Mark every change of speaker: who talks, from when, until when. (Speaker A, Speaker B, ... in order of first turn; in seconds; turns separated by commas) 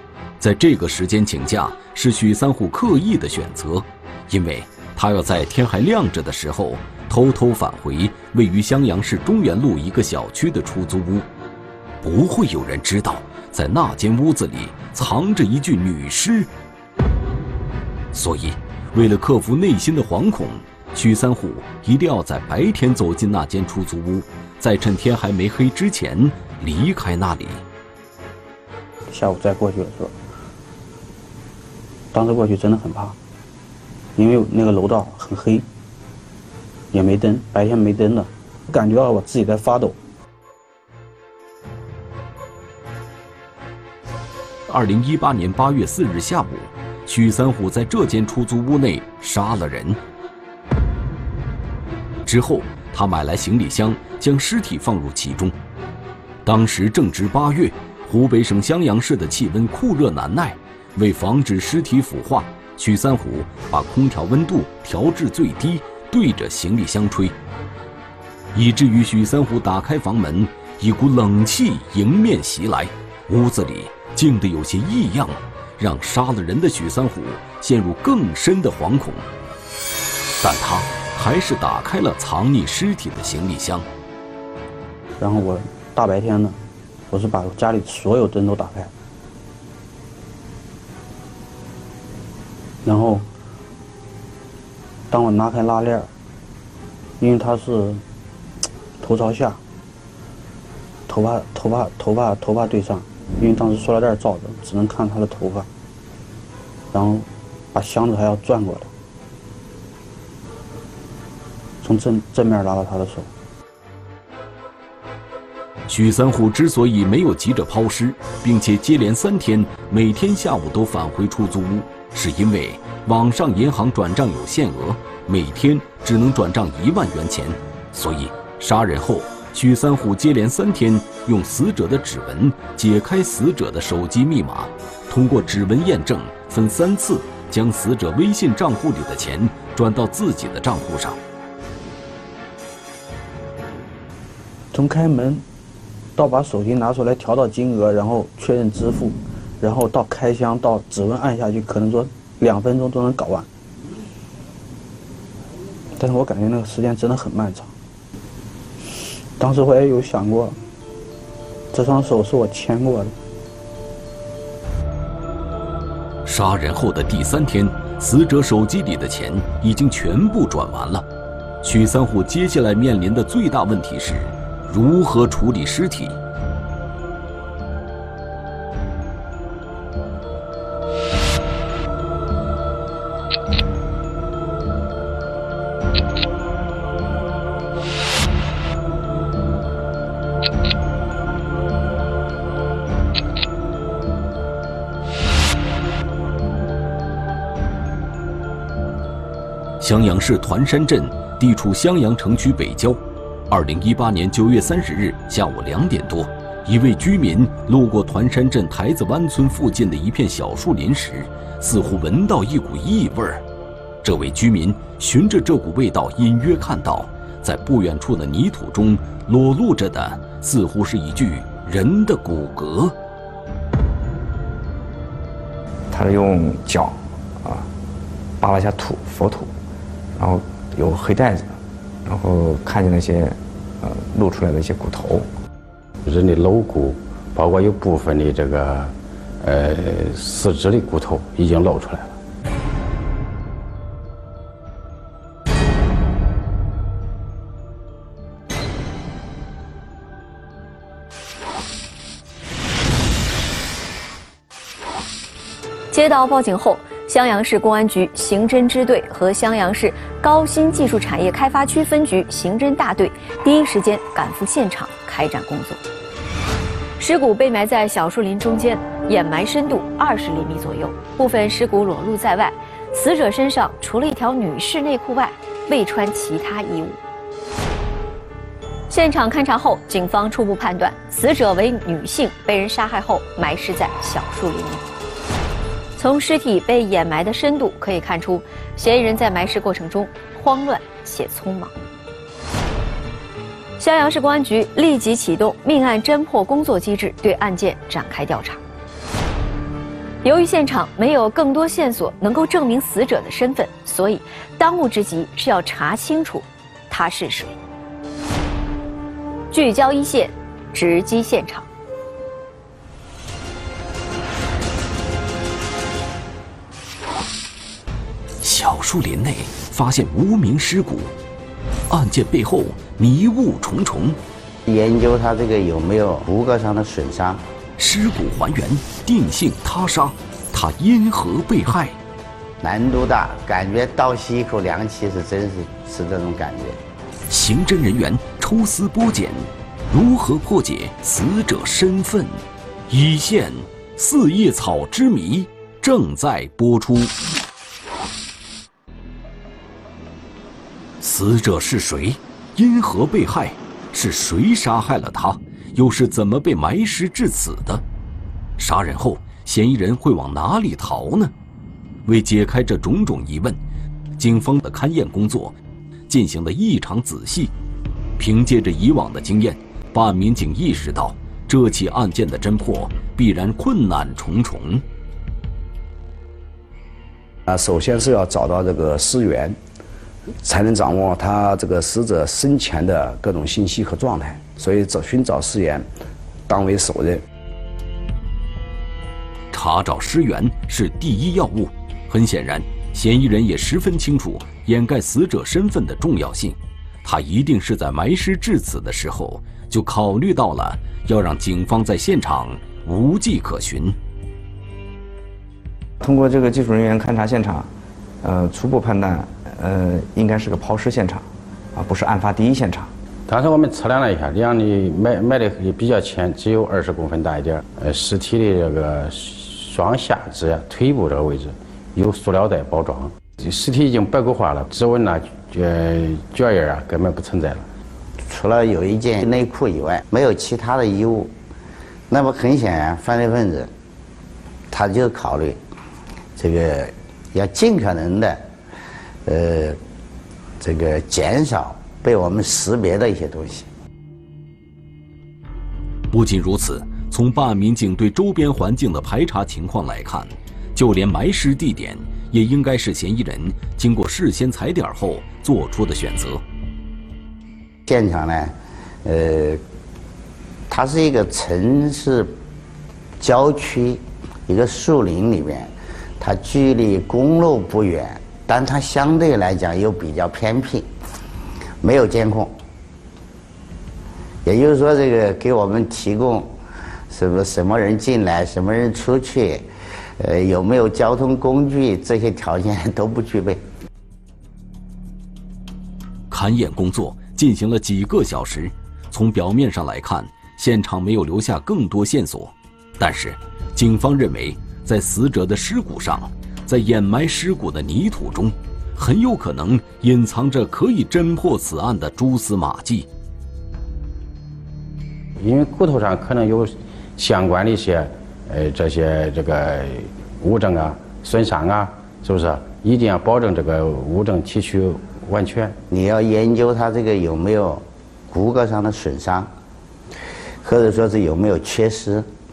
Speaker A: 0.4-11.2, Speaker A: 12.0-16.5, Speaker A: 18.1-27.6, Speaker B: 29.1-30.1, Speaker B: 32.1-33.2, Speaker B: 34.1-35.6, Speaker B: 36.9-40.0, Speaker A: 44.7-50.0, Speaker A: 52.2-55.5, Speaker A: 56.4-67.3, Speaker A: 68.5-79.2, Speaker A: 80.4-83.8, Speaker B: 85.2-86.6, Speaker B: 87.1-88.9, Speaker B: 92.8-93.2, Speaker B: 95.1-96.1, Speaker B: 97.2-98.0, Speaker B: 99.0-99.6, Speaker B: 101.1-105.7, Speaker B: 106.9-108.9, Speaker B: 111.8-113.3, Speaker A: 115.9-141.2, Speaker B: 144.7-145.4, Speaker B: 146.2-153.5, Speaker B: 155.9-157.7, Speaker B: 159.0-160.6, Speaker B: 161.7-163.1, Speaker A: 166.2-171.0, Speaker A: 171.6-176.2, Speaker A: 199.8-203.0, Speaker A: 203.5-213.4, Speaker A: 214.0-222.9, Speaker C: 225.9-227.7, Speaker C: 228.4-229.5, Speaker C: 230.2-235.3, Speaker D: 236.0-242.2, Speaker E: 255.9-265.8, Speaker E: 267.0-277.0, Speaker E: 278.9-284.8, Speaker E: 285.9-291.7, Speaker E: 293.8-298.6, Speaker E: 300.2-307.6, Speaker E: 309.5-311.7, Speaker A: 318.4-321.1, Speaker A: 321.9-324.2, Speaker F: 324.6-327.4, Speaker A: 327.8-332.0, Speaker F: 332.6-336.8, Speaker A: 337.3-347.1, Speaker A: 351.0-357.8, Speaker A: 358.6-361.3, Speaker A: 362.1-363.6, Speaker A: 364.2-365.5, Speaker A: 366.1-367.5, Speaker A: 368.2-374.8, Speaker G: 377.5-379.6, Speaker G: 380.4-385.9, Speaker G: 386.5-387.2, Speaker A: 389.5-403.9, Speaker C: 406.0-407.7, Speaker C: 408.2-412.9, Speaker D: 413.3-427.6, Speaker F: 428.2-431.3, Speaker F: 432.1-433.7, Speaker F: 434.7-435.6, Speaker F: 436.4-438.4, Speaker F: 439.2-439.8, Speaker F: 440.6-443.7, Speaker A: 446.1-456.4, Speaker F: 457.9-458.5, Speaker F: 459.0-459.6, Speaker F: 460.7-462.4, Speaker F: 463.2-470.9, Speaker F: 471.8-472.5, Speaker F: 474.4-476.5, Speaker F: 477.1-479.7, Speaker F: 480.2-483.6, Speaker A: 486.3-503.1, Speaker D: 505.4-515.8, Speaker F: 515.9-519.5, Speaker F: 520.6-522.3